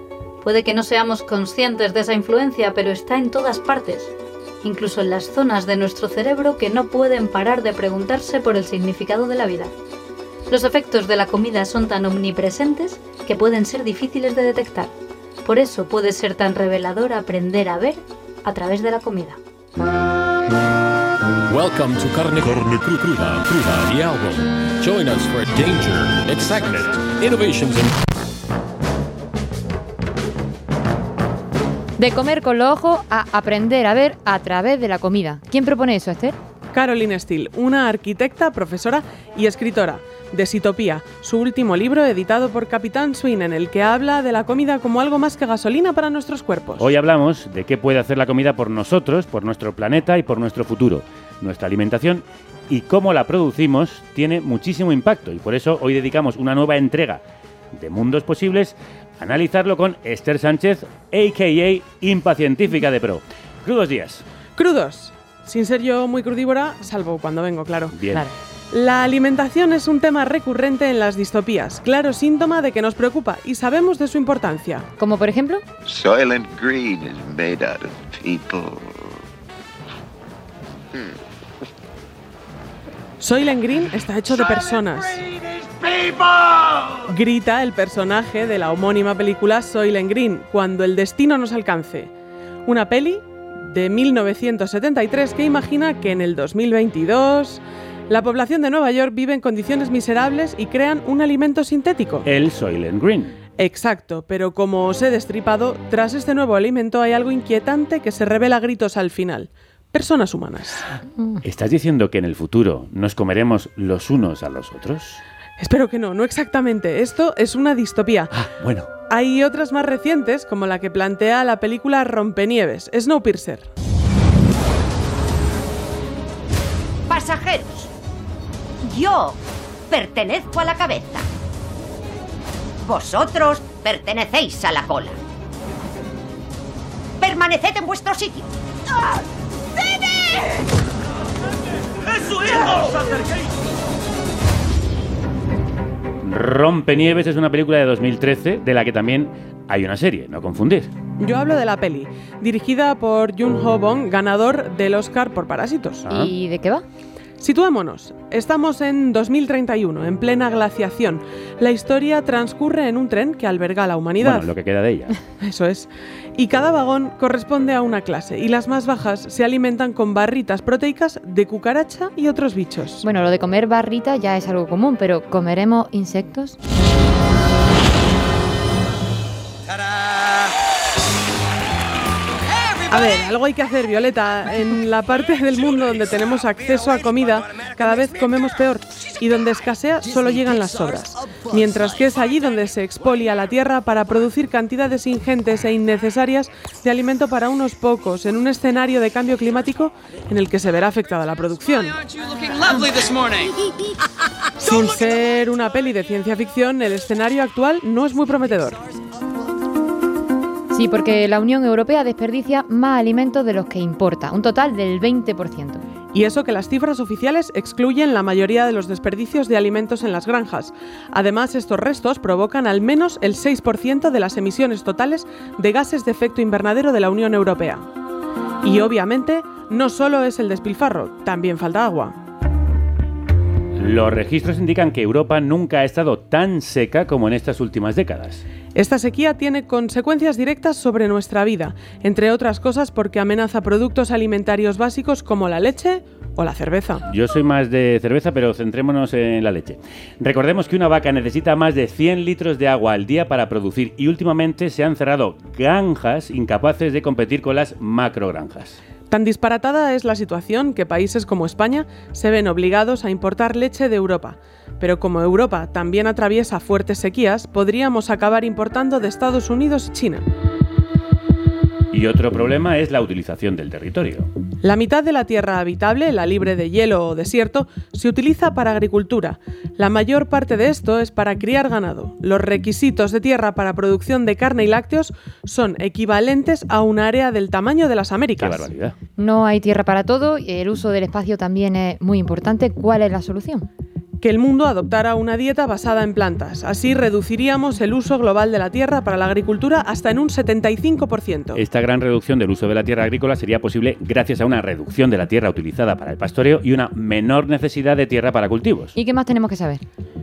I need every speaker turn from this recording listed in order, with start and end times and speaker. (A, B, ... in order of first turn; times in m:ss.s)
0:00.4-0:09.7 A
0:10.5-0:14.9 A
0:15.4-0:19.4 A
0:21.5-0:27.9 B
0:32.0-0:36.4 C
0:36.7-0:46.9 D
0:46.8-0:57.2 E
0:57.8-1:04.2 E
1:04.6-1:08.0 D
1:07.9-1:08.2 E
1:08.7-1:14.9 D
1:15.0-1:15.6 C
1:15.8-1:19.2 F
1:23.2-1:25.2 D
1:27.0-1:32.1 D
1:32.7-1:42.3 D
1:42.2-1:43.3 E
1:43.6-1:50.8 D
1:51.2-1:51.4 C
1:51.4-1:55.2 E
1:55.6-1:58.3 D
1:58.3-1:58.9 E
1:59.1-2:03.7 D
2:07.1-2:07.9 G
2:08.8-2:09.4 G
2:09.9-2:11.2 G
2:12.8-2:15.2 G
2:17.2-2:18.5 G
2:26.2-2:30.9 E
2:31.2-2:36.0 D
2:36.1-2:36.3 E
2:36.1-2:36.8 C
2:37.4-2:44.5 D
2:44.2-2:45.2 E
2:45.4-2:53.0 D
2:53.0-2:56.6 C
3:02.9-3:22.1 D
3:24.6-3:28.8 D
3:30.7-3:35.8 C
3:36.1-3:47.9 D
3:48.6-3:52.2 D
3:53.8-3:58.4 E
3:58.8-4:07.0 D
4:07.1-4:18.8 E
4:19.1-4:30.2 D
4:31.9-4:34.3 E
4:34.6-4:48.7 D
4:48.4-4:49.0 E
4:49.2-4:53.7 C
4:54.2-5:01.6 D
5:01.6-5:08.9 E
5:09.0-5:09.8 C